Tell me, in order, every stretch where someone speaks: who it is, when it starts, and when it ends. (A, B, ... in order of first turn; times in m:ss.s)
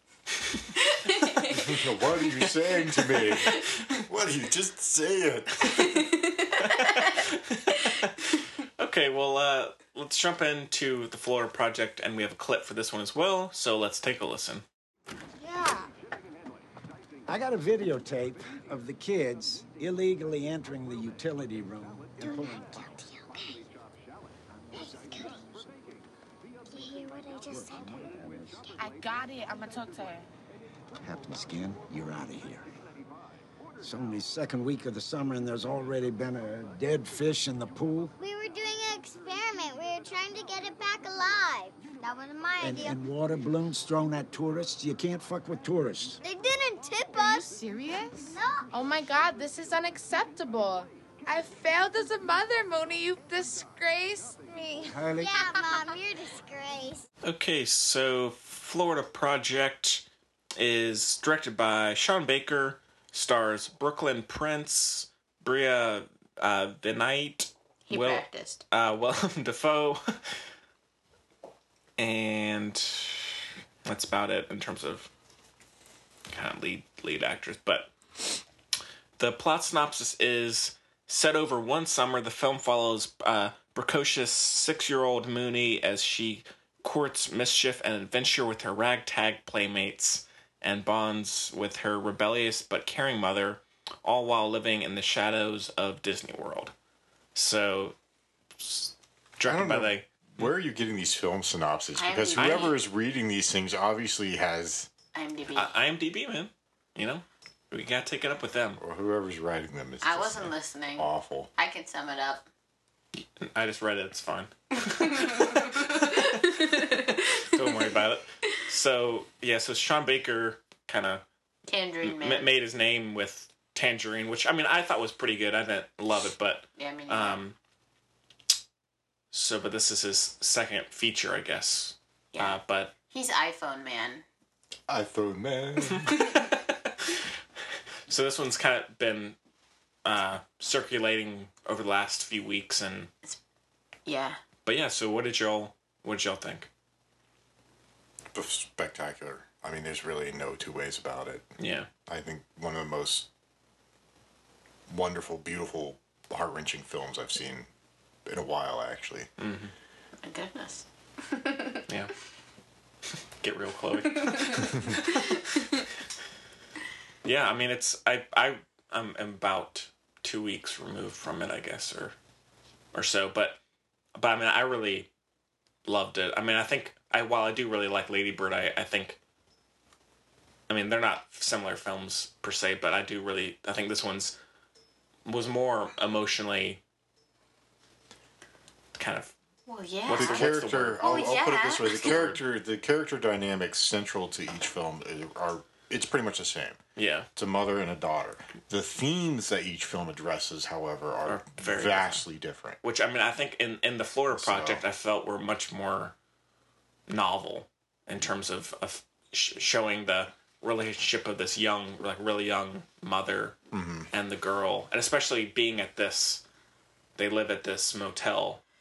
0:00.3-0:00.6 A
0:00.8-0:02.2 B
0:01.5-0:06.0 C
0:03.2-0:03.8 B
0:05.9-0:07.2 B
0:06.6-0:08.2 A
0:08.8-0:14.6 A
0:17.3-0:23.0 D
0:22.2-0:23.6 E
0:24.7-0:25.5 E
0:26.7-0:28.1 E
0:27.5-0:28.7 D
0:28.8-0:30.3 F
0:31.0-0:32.6 D
0:33.8-0:38.1 D
0:38.2-0:43.0 E
0:42.6-0:46.2 D
0:46.2-0:47.6 E
0:47.1-0:54.5 F
0:48.2-0:48.7 E
0:54.5-0:57.0 E
0:54.9-0:55.4 D
0:55.4-0:55.8 F
0:57.2-1:00.0 A
1:00.6-1:10.1 A
1:07.9-1:08.6 B
1:12.0-1:15.1 A
1:16.3-1:18.4 A
1:19.2-1:36.7 A
1:37.3-1:38.0 A
1:38.6-1:40.5 A
1:39.4-1:44.9 C
1:42.0-1:42.7 B
1:42.4-1:42.7 A
1:45.1-1:45.7 B
1:45.5-1:48.8 A
1:48.8-1:51.5 C
1:50.0-1:52.4 B
1:53.2-2:01.2 A
1:56.0-1:57.5 B
2:01.7-2:02.5 B
2:02.0-2:07.6 A
2:06.8-2:07.4 B
2:09.3-2:12.9 A
2:12.3-2:12.6 B
2:13.1-2:14.2 B
2:14.9-2:16.2 C
2:16.0-2:17.2 A
2:18.1-2:19.4 A
2:20.0-2:23.1 A
2:24.0-2:24.4 B
2:24.6-2:26.7 A
2:28.3-2:31.5 C
2:31.6-2:31.9 A
2:32.1-2:33.3 C
2:34.9-2:37.7 C
2:38.2-2:39.3 C
2:39.4-2:39.7 A
2:40.2-2:41.8 B
2:43.4-2:45.4 A
2:44.2-2:45.8 B
2:47.2-2:52.1 A
2:52.9-2:53.6 A
2:54.1-2:55.1 A
2:55.8-2:59.2 A
3:00.7-3:04.4 A
3:05.2-3:06.8 A
3:08.9-3:09.3 A
3:09.7-3:12.2 B
3:10.0-3:11.3 A
3:10.1-3:16.8 C
3:11.8-3:12.4 A
3:17.0-3:17.3 A
3:17.4-3:22.8 C
3:21.2-3:22.2 A
3:22.8-3:26.1 A
3:24.3-3:24.8 C
3:27.1-3:33.6 A
3:33.7-3:34.1 C
3:34.1-3:36.4 A
3:37.2-3:38.6 A